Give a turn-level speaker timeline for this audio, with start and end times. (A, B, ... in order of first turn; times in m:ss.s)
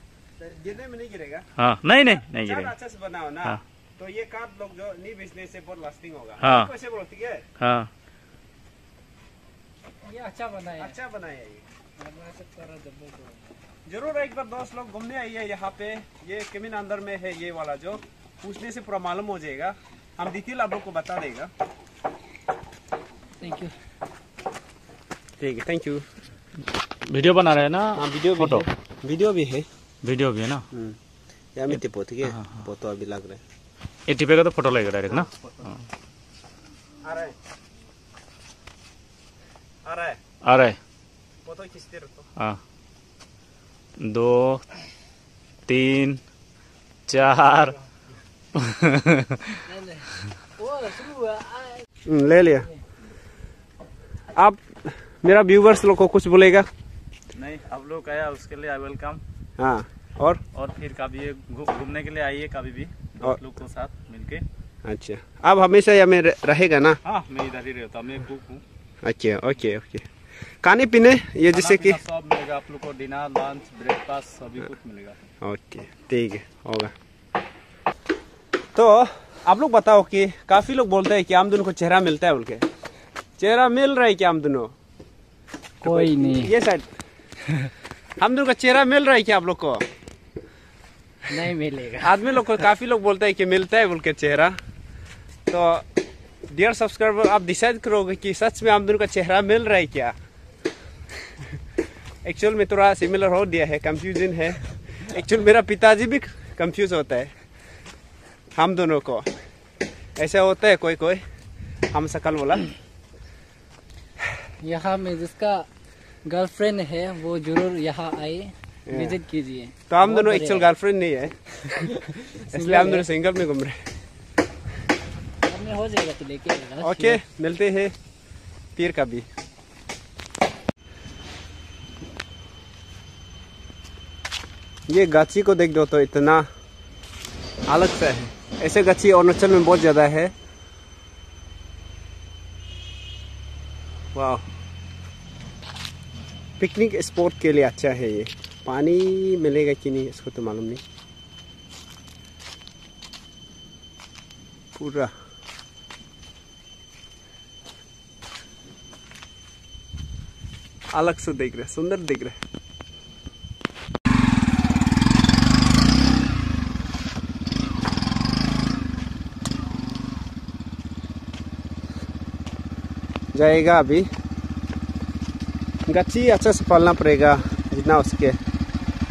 0:00.4-0:01.4 A
0:01.6-0:02.7 B
0:02.0-0:07.4 A
0:06.4-0:06.7 B
0:07.6-0:07.9 B
0:10.0-0:10.9 C
0:10.8-0:11.6 A
0:12.0-0:13.6 C
0:13.8-0:21.5 A
0:23.4-0:23.7 C
0:25.4-0:26.0 A
0:27.1-0:28.6 B
0:27.9-0:29.7 A
0:30.0-0:30.6 B
0:30.7-0:31.0 A
0:31.6-0:33.4 A
0:32.3-0:32.6 B
0:34.1-0:35.7 B
0:35.1-0:35.5 A
0:37.0-0:37.4 A
0:39.8-0:40.2 A
0:40.4-0:40.8 B
0:41.4-0:42.3 A
0:44.0-0:44.6 B
0:45.7-0:46.2 B
0:47.1-0:47.8 B
0:48.5-0:49.6 B
0:49.6-0:51.9 C
0:52.0-0:52.7 A
0:54.3-0:56.7 A
0:57.4-0:59.2 B
0:59.6-1:00.4 A
1:00.5-1:04.4 B
1:04.8-1:07.0 A
1:07.0-1:08.6 B
1:09.0-1:10.1 A
1:10.6-1:12.0 A
1:11.5-1:15.2 B
1:15.4-1:16.9 A
1:18.7-1:22.6 A
1:23.4-1:24.7 A
1:25.8-1:26.5 C
1:25.8-1:27.0 A
1:28.2-1:29.8 A
1:31.3-1:32.4 C
1:32.0-1:34.6 A
1:35.5-1:35.8 A
1:36.5-1:40.1 A
1:42.2-1:47.3 A
1:48.6-1:49.3 A
1:50.2-1:51.2 A
1:51.9-1:52.7 A
1:54.6-1:55.7 C
1:56.2-2:00.7 C
1:58.9-1:59.2 A
1:59.9-2:03.8 A
2:02.5-2:03.0 C
2:05.4-2:07.2 C
2:06.8-2:07.9 A
2:08.8-2:09.2 A
2:14.9-2:16.5 A
2:17.7-2:20.3 A
2:24.1-2:24.4 A
2:26.6-2:30.8 A
2:34.7-2:35.1 A
2:40.9-2:42.4 A
2:53.3-2:54.1 A
2:55.9-2:58.4 A